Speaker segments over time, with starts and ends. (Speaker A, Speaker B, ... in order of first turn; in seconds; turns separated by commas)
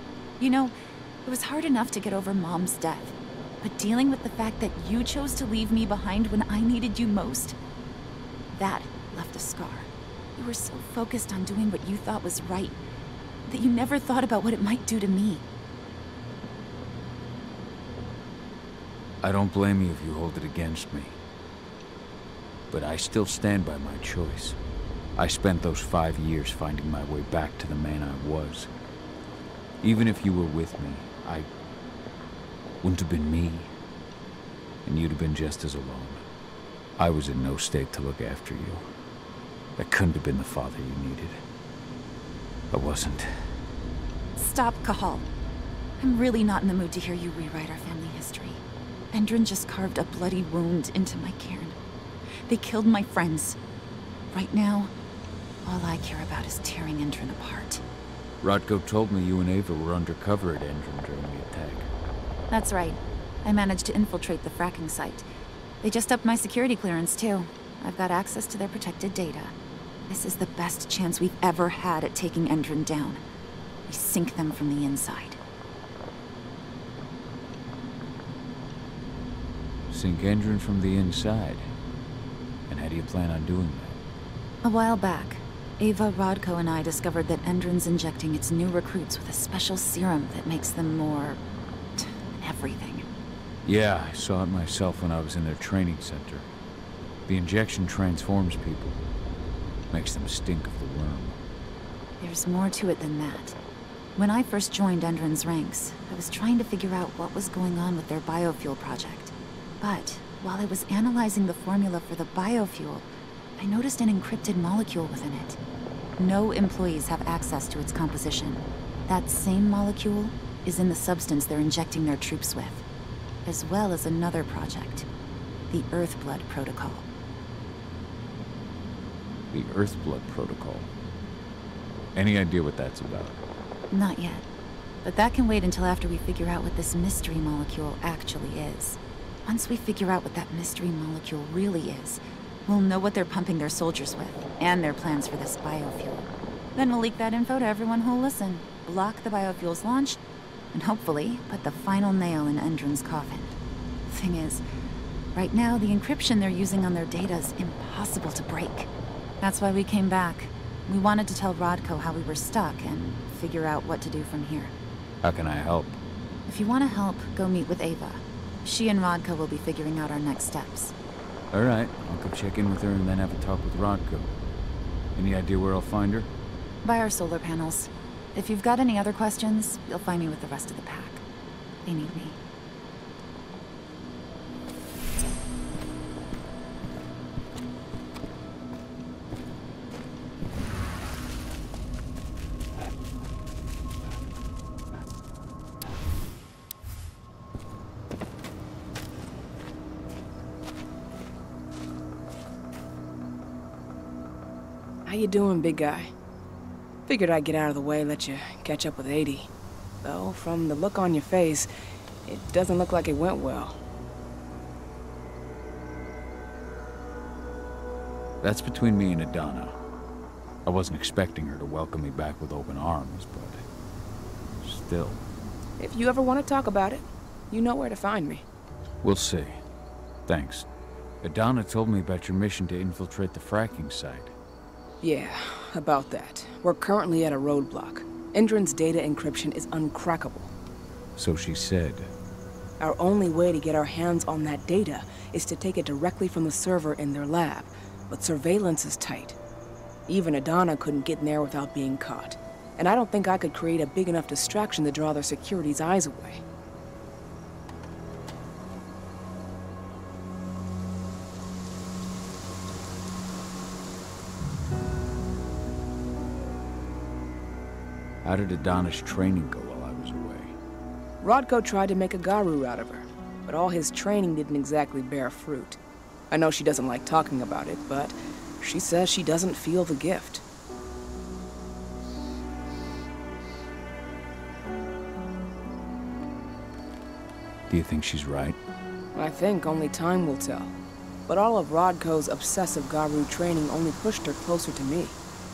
Speaker A: 0.4-7.6, Speaker A: 8.6-12.8, Speaker A: 13.5-15.4, Speaker B: 19.2-21.2, Speaker B: 22.7-24.6, Speaker B: 25.2-28.7, Speaker B: 29.8-31.5, Speaker B: 32.8-33.7, Speaker B: 34.9-36.3, Speaker B: 37.0-38.8, Speaker B: 39.8-41.4, Speaker B: 42.7-43.3, Speaker A: 44.4-45.3, Speaker A: 46.0-51.8, Speaker A: 52.5-53.6, Speaker A: 54.3-54.9, Speaker A: 55.6-57.8, Speaker B: 58.4-61.9, Speaker A: 62.5-65.3, Speaker A: 65.8-69.5, Speaker A: 70.1-73.2, Speaker A: 73.9-75.4, Speaker B: 79.9-81.7, Speaker B: 82.7-84.0, Speaker A: 84.6-91.4, Speaker A: 92.0-93.1, Speaker B: 93.7-96.5, Speaker B: 97.3-99.0, Speaker B: 99.9-101.4, Speaker A: 102.2-103.6, Speaker A: 104.2-115.6, Speaker A: 116.2-122.8, Speaker A: 123.5-125.1, Speaker A: 125.7-127.0, Speaker B: 129.5-130.9, Speaker B: 132.2-133.4, Speaker A: 133.9-134.4, Speaker A: 135.0-150.2, Speaker A: 150.7-153.6, Speaker A: 154.1-154.6, Speaker A: 155.3-158.9, Speaker A: 159.4-164.7, Speaker B: 165.2-166.0, Speaker A: 166.5-170.9, Speaker B: 171.5-174.3, Speaker B: 175.2-176.3, Speaker A: 176.8-181.2, Speaker A: 181.8-182.4, Speaker C: 205.1-206.1, Speaker C: 207.1-209.5, Speaker C: 210.0-211.7, Speaker C: 212.3-213.8, Speaker B: 218.4-219.8, Speaker B: 220.7-223.6, Speaker B: 224.6-225.2, Speaker C: 225.8-228.4, Speaker B: 229.0-229.6, Speaker B: 230.3-230.7, Speaker B: 231.2-234.3, Speaker C: 235.0-240.5, Speaker B: 241.2-242.1, Speaker C: 242.8-249.4, Speaker C: 250.1-256.4, Speaker B: 268.2-270.6, Speaker C: 271.2-275.8, Speaker C: 276.3-280.4, Speaker B: 287.7-288.6, Speaker C: 289.1-290.7, Speaker C: 291.3-295.2